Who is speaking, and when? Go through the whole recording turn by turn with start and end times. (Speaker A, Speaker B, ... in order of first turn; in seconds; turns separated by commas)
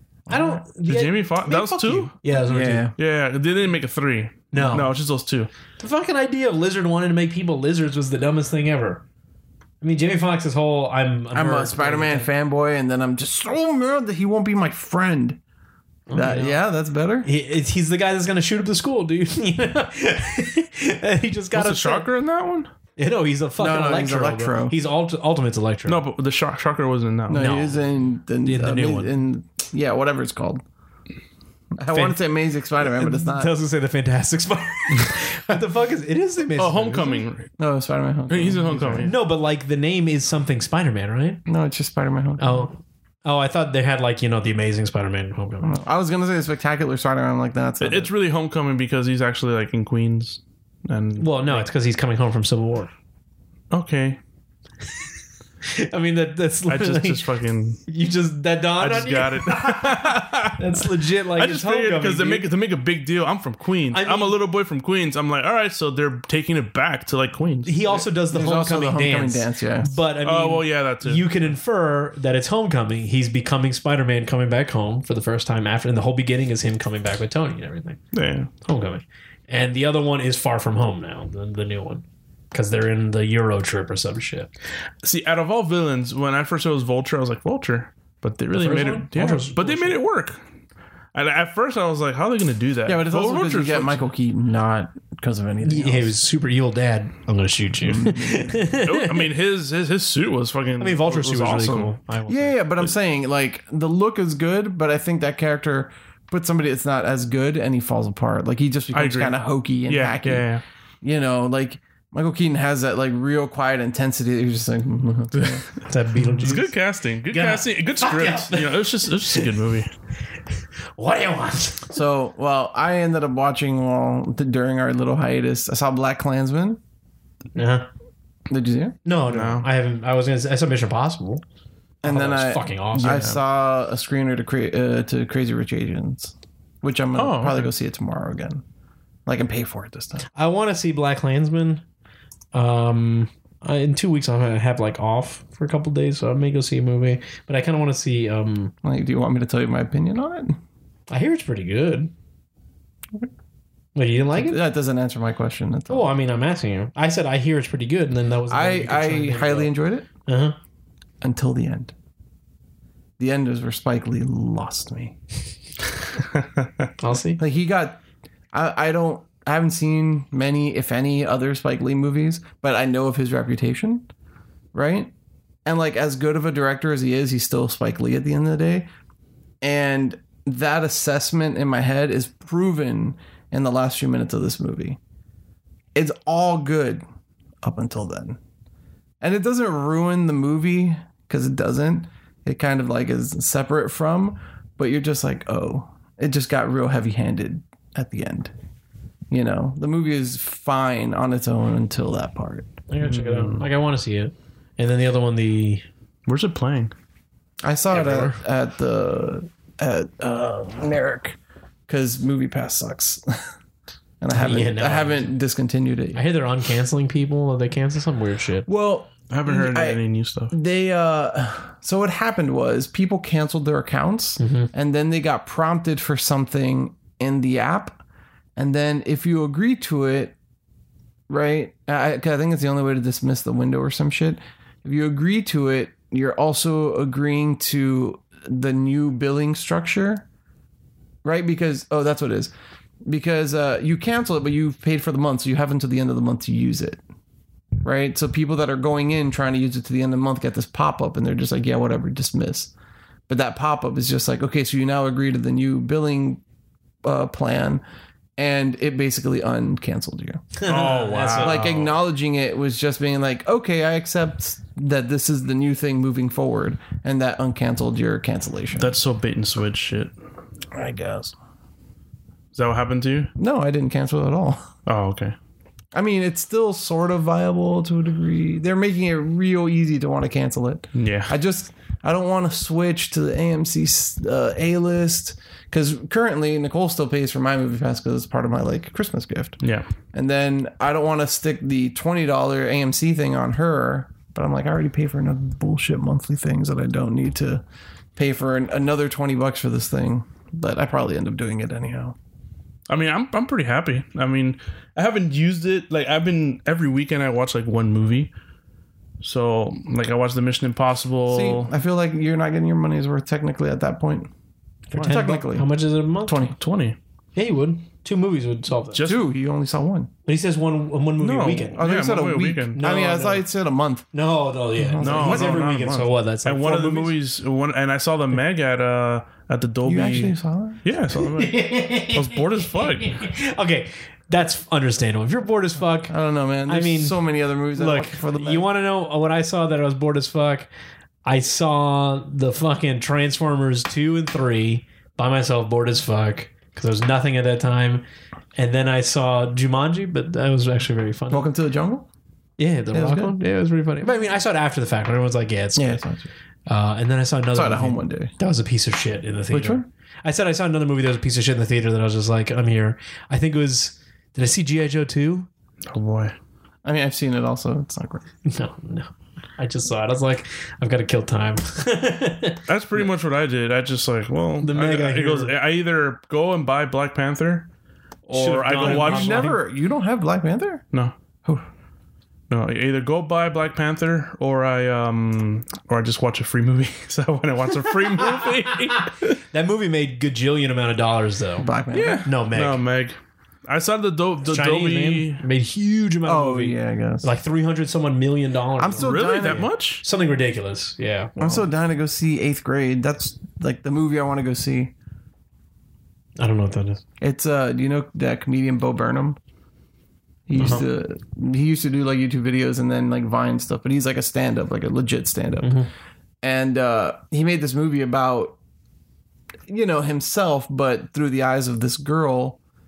Speaker A: 0.3-0.6, Speaker B: 0.3-2.9, Speaker C: 0.8-2.2, Speaker A: 1.5-2.9, Speaker C: 3.0-5.5, Speaker B: 4.5-4.9, Speaker B: 5.8-9.0, Speaker B: 9.8-12.3, Speaker A: 11.3-15.4, Speaker B: 16.1-16.6, Speaker A: 16.1-17.3, Speaker B: 17.2-22.1, Speaker C: 21.5-22.7, Speaker B: 23.0-26.0, Speaker A: 23.6-24.8, Speaker C: 25.9-27.5, Speaker A: 27.3-30.6, Speaker B: 27.3-27.8, Speaker B: 28.4-29.2, Speaker A: 31.8-33.5, Speaker B: 31.9-32.2, Speaker B: 32.8-37.2, Speaker C: 36.5-37.5, Speaker A: 37.6-39.1, Speaker C: 38.3-39.1, Speaker B: 39.0-41.4, Speaker A: 41.5-42.7, Speaker B: 42.4-45.8, Speaker A: 45.6-48.1, Speaker C: 47.8-51.7, Speaker B: 51.2-52.9, Speaker C: 53.7-54.2, Speaker B: 55.6-57.3, Speaker C: 56.7-57.8, Speaker B: 57.9-62.5, Speaker C: 58.8-67.7, Speaker B: 63.9-64.4, Speaker B: 67.7-78.0, Speaker A: 67.9-69.9, Speaker C: 70.2-71.4, Speaker C: 78.1-78.5, Speaker B: 78.6-84.5, Speaker C: 85.0-90.4, Speaker B: 88.5-90.0, Speaker C: 91.1-94.1, Speaker A: 92.9-96.1, Speaker B: 95.6-99.3, Speaker A: 97.8-98.6, Speaker C: 98.8-101.9, Speaker B: 100.8-102.6, Speaker A: 102.3-110.5, Speaker C: 108.9-110.6, Speaker A: 111.0-115.6, Speaker C: 115.3-115.6, Speaker B: 115.8-116.7, Speaker C: 116.4-119.9, Speaker B: 117.3-119.5, Speaker B: 121.0-121.9, Speaker A: 121.9-126.8, Speaker B: 127.6-127.9, Speaker A: 128.5-129.0, Speaker B: 129.1-131.4, Speaker C: 129.3-129.7, Speaker A: 132.0-138.6, Speaker B: 132.1-133.3, Speaker C: 133.0-133.4, Speaker C: 137.2-137.7, Speaker A: 139.3-140.2, Speaker B: 140.3-141.8, Speaker B: 142.5-148.7, Speaker A: 148.8-150.6, Speaker B: 151.1-152.1, Speaker B: 153.9-154.6, Speaker A: 154.4-156.1, Speaker B: 155.9-159.7, Speaker A: 158.5-160.1, Speaker B: 160.3-160.6, Speaker A: 161.2-161.9, Speaker A: 163.2-165.2, Speaker B: 167.0-167.4, Speaker A: 167.4-168.0, Speaker A: 168.5-174.1, Speaker A: 174.7-175.1, Speaker A: 175.7-178.9, Speaker A: 179.6-185.0, Speaker A: 185.9-187.0, Speaker A: 187.6-188.4, Speaker A: 189.2-198.5, Speaker A: 199.3-202.7, Speaker B: 202.9-205.8, Speaker C: 203.0-203.7, Speaker C: 206.3-206.9, Speaker A: 207.6-213.5, Speaker B: 207.9-208.4, Speaker A: 214.2-216.2, Speaker B: 214.3-215.3, Speaker B: 216.2-218.7, Speaker A: 218.7-220.0, Speaker C: 219.3-220.5, Speaker A: 220.5-228.0, Speaker B: 224.4-224.7, Speaker A: 228.6-230.3, Speaker A: 231.3-240.3, Speaker A: 241.2-242.5, Speaker A: 243.1-247.0, Speaker A: 247.8-252.7, Speaker A: 253.3-256.4, Speaker A: 257.0-257.8, Speaker A: 258.4-260.4, Speaker B: 260.6-261.6, Speaker C: 260.6-262.0, Speaker A: 261.4-268.9, Speaker C: 268.8-270.1, Speaker A: 270.7-271.4, Speaker C: 272.5-273.3, Speaker A: 273.4-274.7, Speaker C: 274.9-275.4, Speaker A: 275.9-289.6, Speaker C: 280.9-281.3, Speaker A: 290.1-297.6, Speaker A: 298.2-302.2, Speaker C: 302.9-308.3, Speaker C: 309.2-311.7, Speaker A: 311.3-314.3, Speaker B: 314.9-316.5, Speaker C: 314.9-315.2, Speaker A: 315.0-315.7, Speaker A: 316.3-316.6, Speaker C: 316.6-317.0, Speaker B: 317.4-319.0, Speaker C: 318.9-319.3, Speaker A: 319.1-320.1, Speaker B: 320.3-321.9, Speaker C: 321.2-322.8, Speaker A: 321.8-324.1, Speaker B: 322.8-323.5, Speaker B: 324.1-327.1, Speaker A: 324.8-325.9, Speaker C: 325.0-333.2, Speaker A: 329.9-330.8, Speaker B: 331.3-336.1, Speaker A: 336.1-338.7, Speaker B: 336.7-337.2, Speaker B: 337.8-340.7, Speaker B: 341.2-348.0, Speaker B: 348.6-351.5, Speaker A: 351.3-352.1, Speaker B: 352.6-356.0, Speaker A: 352.9-353.3, Speaker A: 355.8-356.3, Speaker B: 356.7-365.5, Speaker A: 357.6-358.3, Speaker A: 359.5-359.9, Speaker C: 365.9-366.4, Speaker A: 366.8-368.2, Speaker B: 368.4-372.6, Speaker C: 372.7-377.7, Speaker B: 374.6-375.5, Speaker C: 378.3-379.5, Speaker B: 378.3-379.6, Speaker A: 378.4-380.8, Speaker C: 382.5-389.4, Speaker B: 388.2-389.0, Speaker B: 389.5-391.7, Speaker A: 391.6-392.3, Speaker C: 391.9-395.4, Speaker B: 392.2-392.8, Speaker B: 394.5-401.3, Speaker A: 396.2-397.3, Speaker A: 398.8-399.7, Speaker C: 399.0-400.0, Speaker C: 401.4-401.6, Speaker A: 401.4-404.9, Speaker B: 406.4-407.0, Speaker A: 407.2-409.4, Speaker A: 410.5-415.7, Speaker B: 410.6-410.9, Speaker B: 415.6-415.9, Speaker A: 416.4-418.6, Speaker A: 419.7-422.6